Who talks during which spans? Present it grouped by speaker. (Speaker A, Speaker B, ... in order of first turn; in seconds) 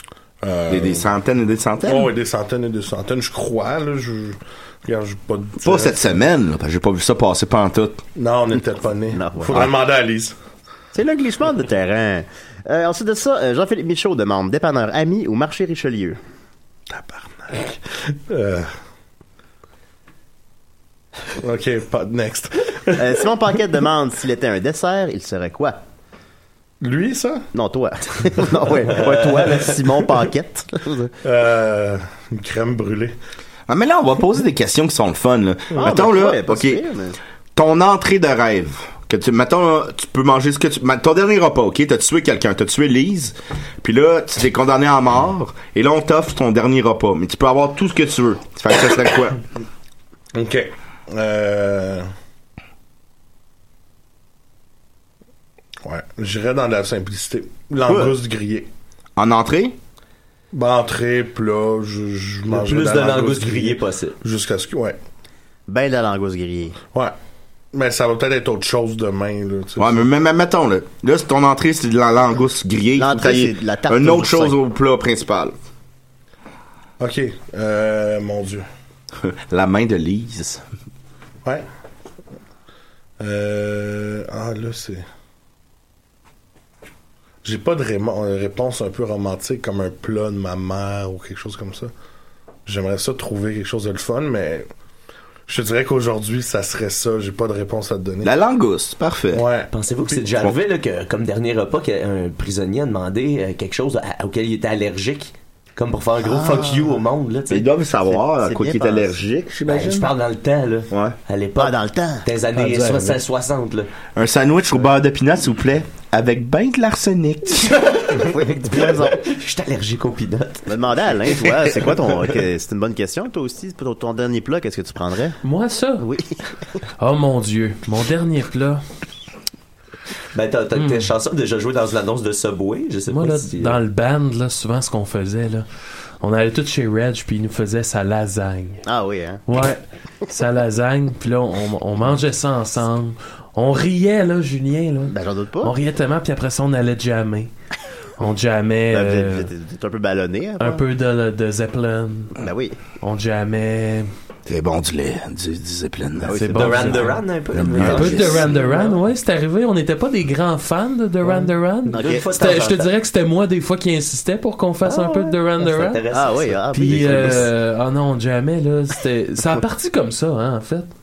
Speaker A: 0.4-1.1, 1.8-6.1, 8.2-10.3, 16.9-18.7, 21.4-23.1, 26.8-27.4, 31.2-33.1, 50.3-52.1, 55.8-58.7, 60.5-65.0, 67.7-70.0, 77.0-78.7, 83.2-85.0, 87.4-91.9, 92.7-94.7, 95.5-98.3, 99.3-100.2, 112.6-113.1
Speaker B: 0.7-2.1, 5.6-8.0, 33.7-36.8, 37.5-49.4, 59.2-59.8, 69.8-75.5, 79.2-80.6, 98.2-99.5, 107.5-110.1, 110.9-111.2, 114.1-117.8, 154.4-156.4, 157.5-158.4
Speaker C: 9.1-9.7, 10.9-16.2, 22.9-25.8, 27.5-31.1, 35.8-37.2, 57.9-58.1, 65.7-66.8, 73.0-74.5, 106.2-107.0, 108.1-109.2, 111.6-112.3, 118.2-119.2, 120.7-125.4, 126.0-126.4, 138.8-139.4, 145.1-145.8, 148.9-150.8, 152.4-152.8, 156.2-157.1, 157.8-158.7, 161.9-162.3, 165.0-165.3, 166.1-167.5
Speaker D: 62.5-64.2, 99.7-107.7, 109.7-113.9, 117.7-120.7, 121.3-122.0, 130.3-133.8, 156.5-158.9, 161.9-162.9, 165.6-167.5
Speaker E: 125.4-126.1, 127.0-128.8, 130.8-131.1, 133.1-135.7, 136.2-138.8, 139.5-147.5, 148.2-149.5, 150.6-152.4, 153.0-154.1, 156.3-157.2, 157.8-166.1, 166.7-170.9